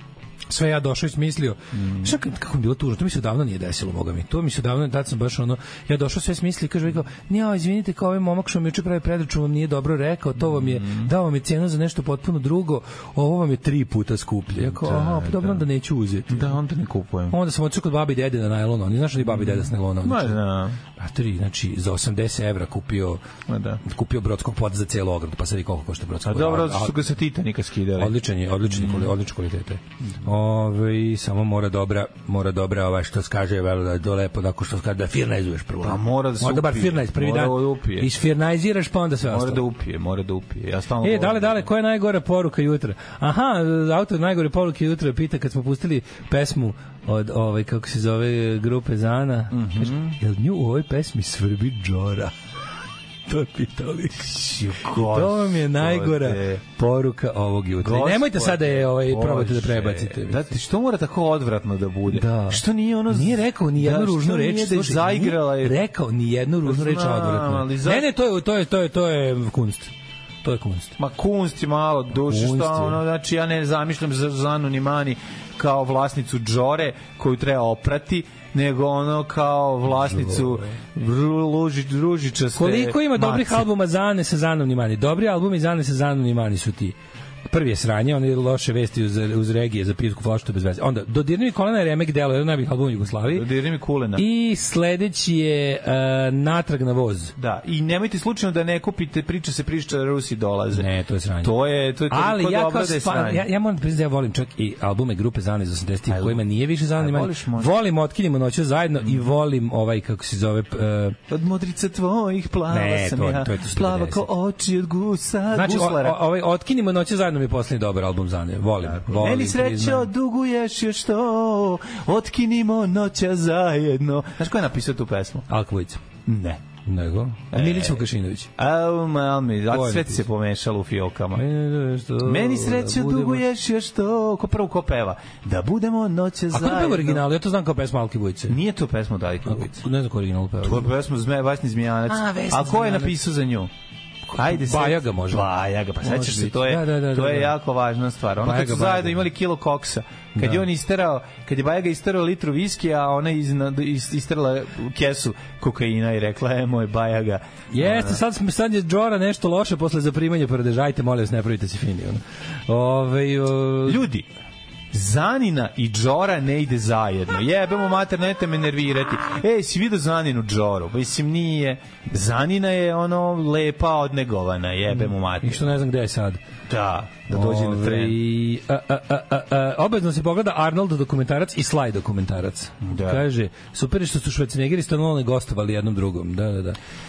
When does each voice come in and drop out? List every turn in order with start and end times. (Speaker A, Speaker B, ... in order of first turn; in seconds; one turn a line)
Speaker A: 0.5-16.5
Speaker B: 1.7-2.1
Speaker B: 10.4-11.1
Speaker B: 14.6-15.6
Speaker B: 16.3-17.4
Speaker A: 17.3-20.4
Speaker B: 19.2-20.8
Speaker A: 20.9-23.2
Speaker B: 23.5-23.8
Speaker A: 23.8-27.0
Speaker B: 26.2-29.1
Speaker A: 28.0-39.6
Speaker B: 35.8-38.1
Speaker B: 39.2-41.7
Speaker A: 41.0-52.3
Speaker B: 49.5-50.2
Speaker A: 53.3-54.3
Speaker B: 54.2-56.6
Speaker A: 54.9-60.5
Speaker B: 57.8-65.8
Speaker A: 62.1-69.9
Speaker B: 66.6-68.1
Speaker A: 70.4-71.0
Speaker B: 71.0-83.7
Speaker A: 72.3-73.0
Speaker A: 80.0-80.7
Speaker A: 82.6-87.0
Speaker A: 87.5-93.5
Speaker B: 93.3-94.2
Speaker A: 94.1-97.3
Speaker B: 97.4-100.9
Speaker A: 100.7-101.5
Speaker B: 101.4-103.5
Speaker A: 102.1-111.2
Speaker B: 106.1-107.7
Speaker B: 111.3-116.2
Speaker A: 112.7-114.3
Speaker A: 115.5-120.1
Speaker B: 118.8-125.5
Speaker A: 125.5-126.0
Speaker B: 126.2-126.6
Speaker A: 126.8-128.5
Speaker B: 127.5-131.4
Speaker A: 129.7-130.2
Speaker A: 131.3-133.4
Speaker B: 132.2-137.2
Speaker A: 136.5-138.6
Speaker B: 138.5-139.8
Speaker A: 139.5-140.9
Speaker B: 140.6-143.7
Speaker A: 142.1-143.2
Speaker A: 144.3-145.5
Speaker B: 144.3-158.2
Speaker A: 146.0-147.5
Speaker A: 148.4-149.2
Speaker A: 150.3-150.6
Speaker A: 157.7-164.0
Speaker B: 163.8-164.3
Speaker B: 164.9-175.7
Speaker A: 174.9-176.4
Speaker B: 176.7-178.2
Speaker A: 177.3-186.8
Speaker B: 182.8-183.2